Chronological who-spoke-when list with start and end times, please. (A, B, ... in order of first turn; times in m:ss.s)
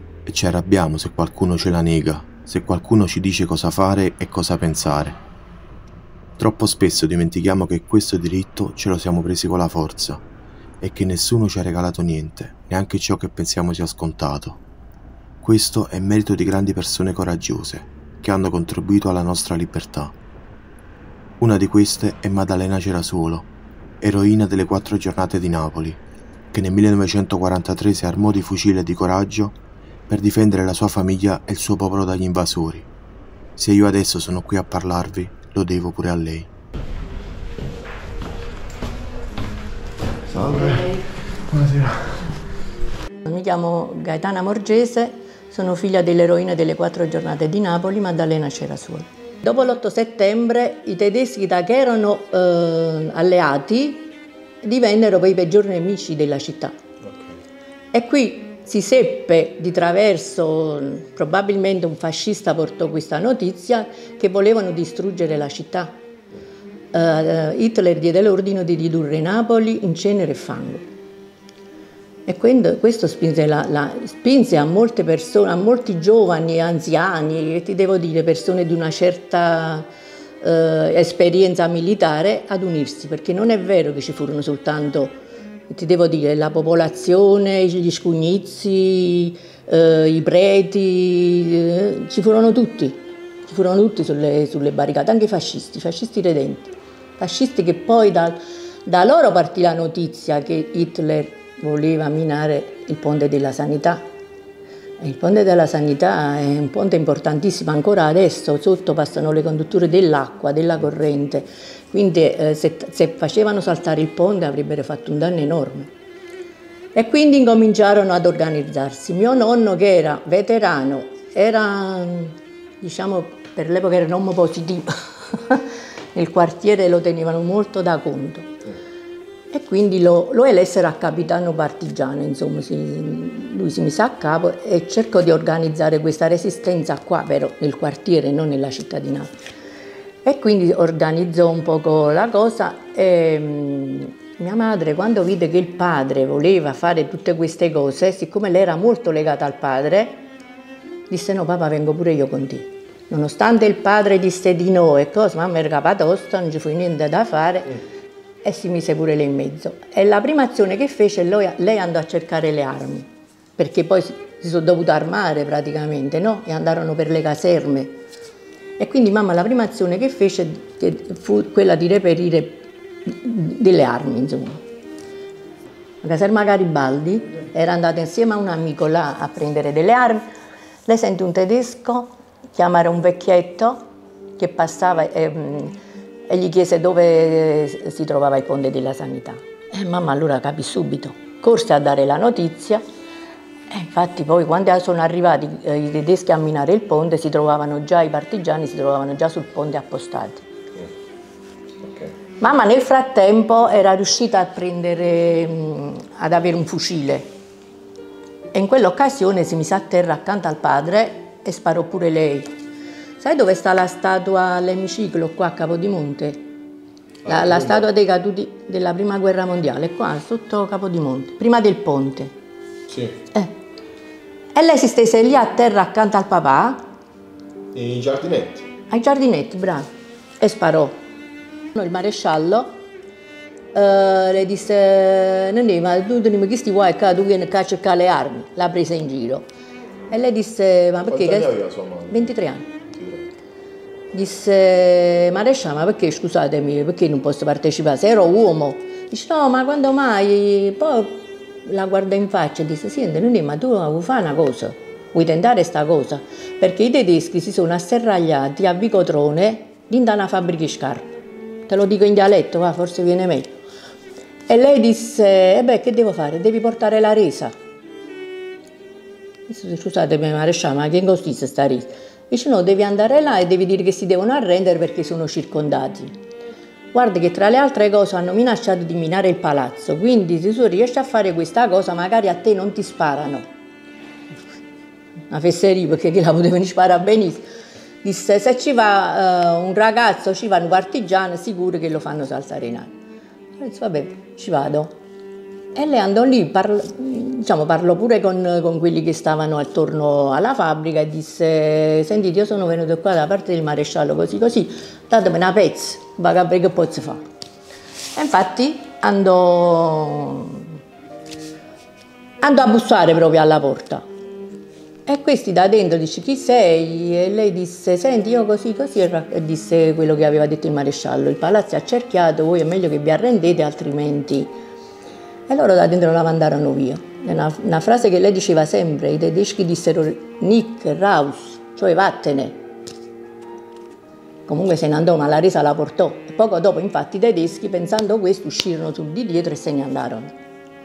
0:00.3-0:05.2 A
0:06.4-0:10.2 A
0:10.8-0:14.6 A
0:15.4-0:20.1 A
0:21.4-0:23.5 A
0:24.0-0:26.0 A
0:26.5-0:29.5 A
0:30.1-0:32.9 A
0:33.6-0:36.5 A
0:40.3-0:40.9 B
0:41.5-0:42.3 B
0:43.2-0:54.1 C
0:54.6-0:56.7 C
0:57.0-0:57.4 B
0:57.9-1:05.9 C
1:06.9-1:10.8 C
1:12.2-1:19.9 C
1:20.4-1:25.2 C
1:25.7-1:44.1 C
1:45.0-1:55.9 C
1:56.9-2:08.5 C
2:09.5-2:19.3 C
2:20.2-2:30.2 C
2:31.1-2:37.8 C
2:38.4-2:48.0 C
2:48.8-2:54.6 C
2:56.0-3:00.2 C
3:00.8-3:03.8 C
3:04.4-3:05.7 C
3:06.3-3:12.8 C
3:13.7-3:20.4 C
3:21.8-3:22.1 B
3:22.4-3:27.3 C
3:28.5-3:32.5 C
3:33.2-3:36.4 C
3:37.2-3:37.9 B
3:37.2-3:42.3 C
3:42.9-3:43.2 B
3:44.5-3:46.8 C
3:47.7-3:48.7 B
3:48.9-3:49.9 C
3:50.4-3:51.0 C
3:51.7-3:52.8 C
3:53.7-3:59.5 C
4:00.1-4:02.7 C
4:01.1-4:03.3 B
4:04.1-4:21.1 C
4:21.7-4:23.6 C
4:24.5-4:27.5 C
4:29.5-4:36.1 C
4:36.9-4:43.4 C
4:45.3-4:47.4 C
4:48.0-4:52.9 C
4:53.6-4:55.0 C
4:55.7-5:07.2 C
5:08.1-5:10.7 C
5:12.4-5:14.0 C
5:15.0-5:24.5 C
5:25.5-5:32.6 C
5:34.5-5:40.3 C